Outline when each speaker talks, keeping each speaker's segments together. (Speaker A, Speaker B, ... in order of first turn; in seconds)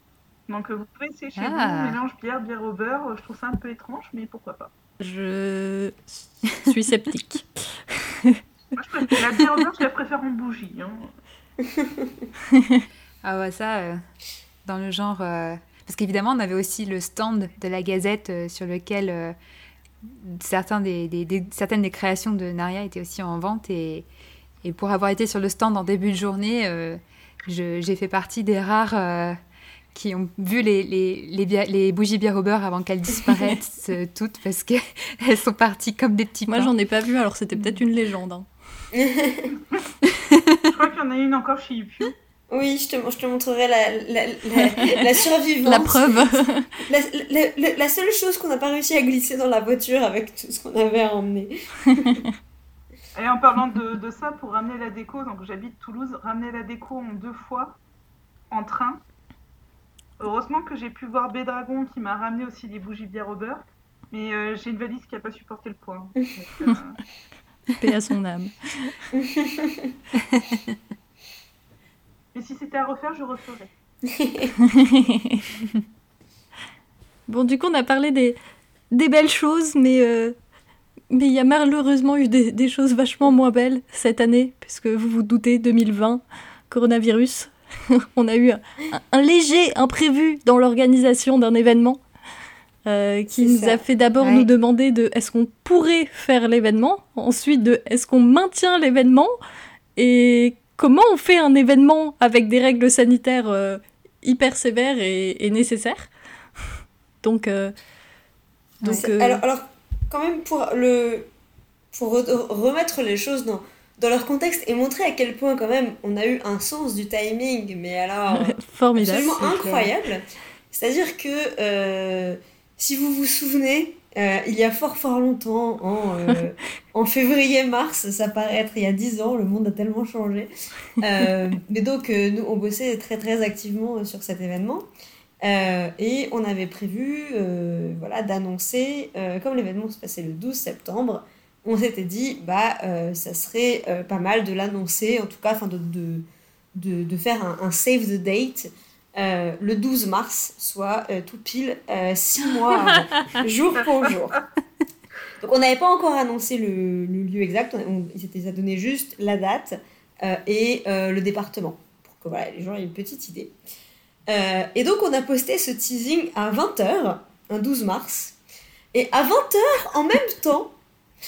Speaker A: 0.5-4.7, 8.8-11.1, 40.7-42.1, 53.1-57.8, 58.5-59.0, 60.2-67.0, 72.3-73.7
Speaker B: 1.4-2.0, 13.2-14.0, 14.7-19.4, 20.1-24.1, 24.6-29.4, 29.9-36.7, 40.1-40.7, 70.3-70.8, 94.2-94.5, 119.4-119.9
Speaker C: 5.0-8.4, 36.5-38.5, 45.6-46.7, 67.8-69.0, 74.7-75.4, 77.3-78.4, 78.9-80.4, 81.1-92.0, 92.9-99.3, 100.0-106.1, 107.2-107.7, 108.8-109.4, 118.3-119.5
Speaker D: 38.9-39.5, 42.5-52.2, 69.1-69.9, 74.1-74.5, 93.4-93.8, 108.9-111.3, 111.9-134.9, 135.4-154.4, 155.4-163.6, 164.3-168.4, 168.9-170.8